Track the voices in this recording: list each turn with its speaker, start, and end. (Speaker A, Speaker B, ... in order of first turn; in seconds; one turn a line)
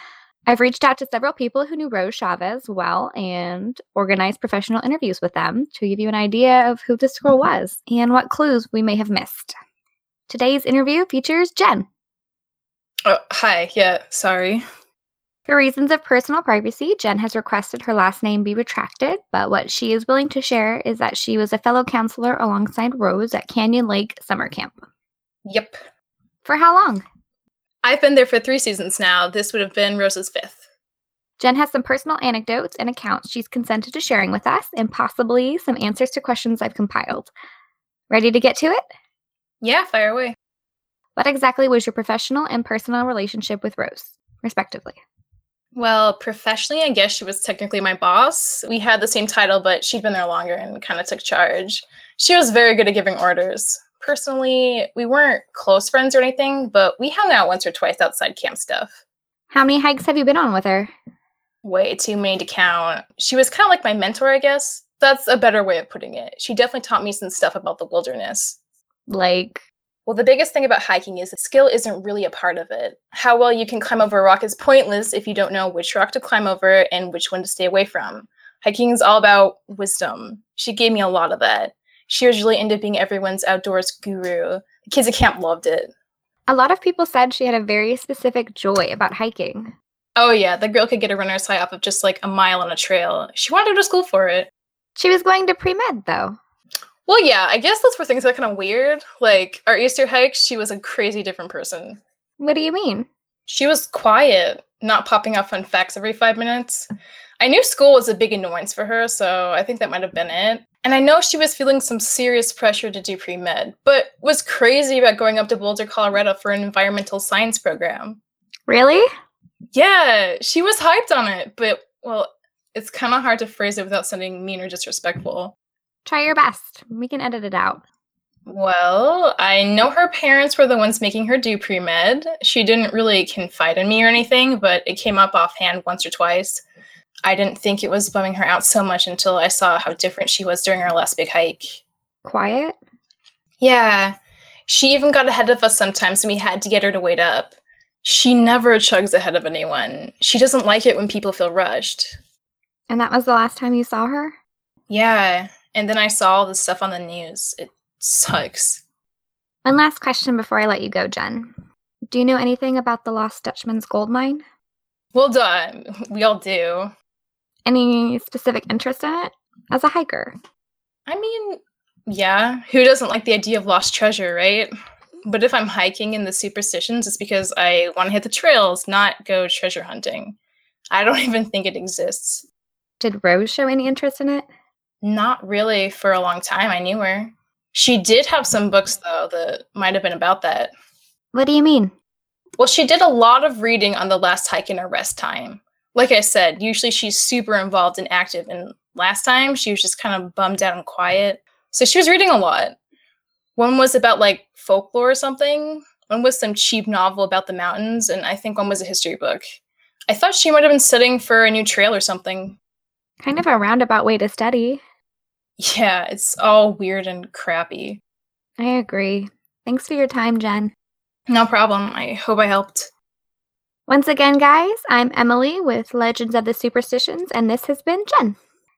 Speaker A: 0.5-9.5
Speaker A: 10.3-11.9
Speaker B: 13.0-14.6
Speaker A: 15.4-24.8
Speaker B: 25.4-25.8
Speaker A: 26.4-27.0
Speaker B: 27.8-30.6
Speaker A: 31.4-37.3
Speaker A: 38.1-38.8
Speaker B: 39.6-40.4
Speaker A: 41.1-45.0
Speaker B: 45.7-58.9
Speaker A: 59.5-60.9
Speaker B: 61.6-68.6
Speaker A: 69.1-69.6
Speaker B: 70.0-85.9
Speaker A: 86.5-89.7
Speaker B: 90.2-94.5
Speaker A: 95.0-96.3
Speaker B: 97.0-102.0
Speaker A: 102.4-103.1
Speaker B: 103.5-106.9
Speaker B: 107.4-118.2
Speaker A: 118.7-119.0
Speaker B: 119.7-125.5
Speaker A: 126.0-127.8
Speaker B: 128.5-136.6
Speaker B: 137.2-141.8
Speaker A: 142.2-142.8
Speaker B: 143.6-144.2
Speaker B: 144.7-152.2
Speaker A: 152.9-154.3
Speaker B: 154.9-158.8
Speaker A: 159.6-161.5
Speaker A: 162.1-164.4
Speaker B: 165.1-166.9
Speaker A: 167.7-170.3
Speaker B: 171.1-174.7
Speaker B: 175.2-180.3
Speaker B: 180.9-182.4
Speaker A: 183.0-184.5
Speaker B: 185.0-190.7
Speaker A: 191.3-191.9
Speaker B: 192.6-202.8
Speaker B: 203.6-209.4
Speaker B: 210.1-212.6
Speaker A: 213.2-214.8
Speaker B: 215.6-218.0
Speaker A: 218.6-220.7
Speaker B: 221.3-222.9
Speaker A: 223.9-228.4